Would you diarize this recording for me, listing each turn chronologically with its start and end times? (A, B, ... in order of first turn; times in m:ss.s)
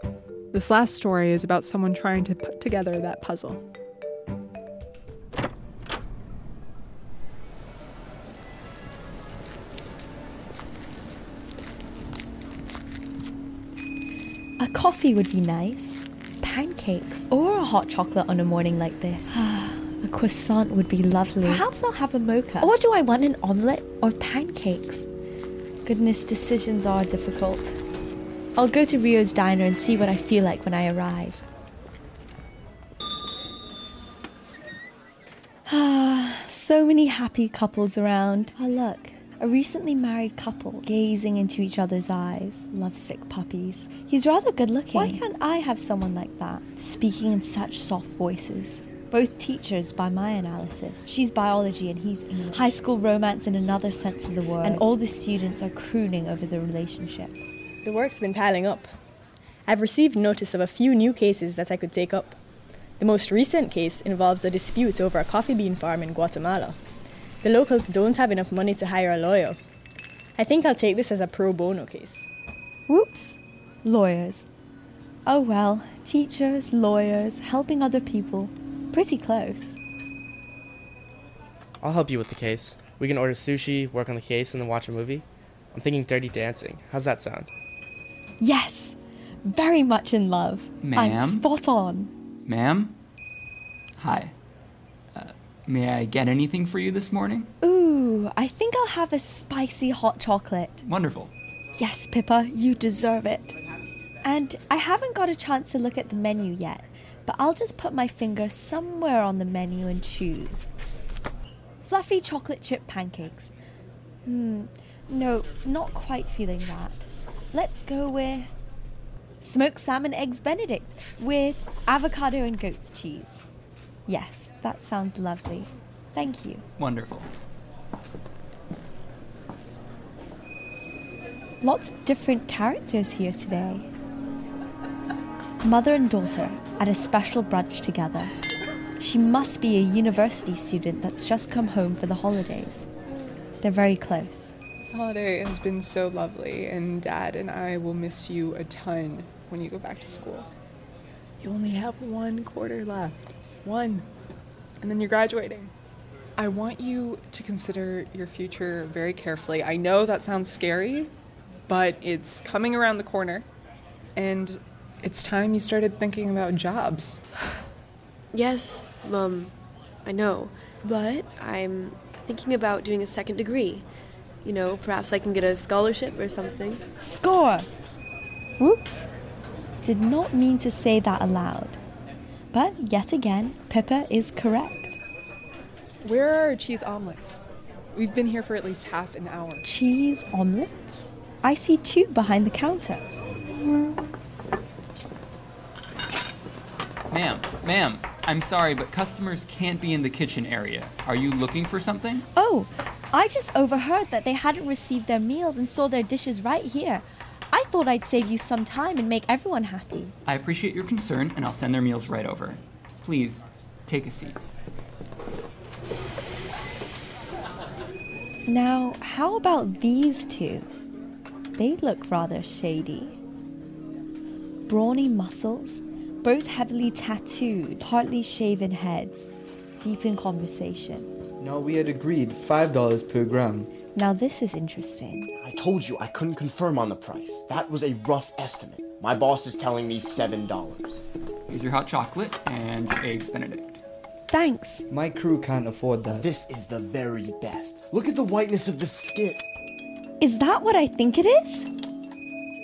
0:00.5-0:03.6 A
0:14.6-0:25.1 B
0:25.8-0:27.8 B
0:28.6-0:31.4 B
0:35.7-0:57.4 B
0:57.8-0:58.9 C
0:59.7-1:02.4 C
1:03.0-1:06.8 C
1:07.4-1:09.6 C
1:10.4-1:12.3 C
1:12.9-1:14.4 B
1:15.3-1:19.8 B
1:21.8-1:27.5 D
1:28.4-1:32.1 B
1:30.8-1:31.5 E
1:32.5-1:33.0 E
1:34.0-1:34.3 E
1:35.1-1:37.5 E
1:37.6-1:40.8 B
1:40.8-1:41.3 E
1:41.8-1:43.6 B
1:44.2-1:50.7 B
1:51.8-1:53.5 B
1:54.2-1:58.6 B
1:59.4-2:03.4 B
2:04.1-2:06.6 B
2:06.8-2:07.3 E
2:11.6-2:13.9 B
2:15.6-2:18.3 B
2:19.0-2:22.9 B
2:23.6-2:24.5 B
2:24.8-2:30.5 A
2:31.4-2:34.1 A
2:34.8-2:35.7 A
2:36.4-2:41.1 A
2:41.7-2:43.5 A
2:44.2-2:47.2 A
2:48.3-2:49.5 F
2:50.0-2:53.8 F
2:54.4-2:56.8 F
2:57.0-2:57.7 B
2:58.6-2:59.1 B
2:59.8-3:01.8 B
3:02.5-3:05.0 B
3:06.0-3:07.4 A
3:07.9-3:09.6 A
3:09.6-3:13.0 B
3:17.1-3:22.2 E
3:22.3-3:30.2 B
3:30.2-3:34.4 E
3:38.5-3:40.7 B
3:41.6-3:43.2 B
3:44.7-3:51.1 B
3:51.4-3:53.7 G
3:53.9-3:55.3 B
3:55.4-4:01.0 H
4:01.5-4:03.8 E
4:04.3-4:04.8 B
4:04.9-4:06.3 G
4:06.1-4:09.4 H
4:10.2-4:11.7 B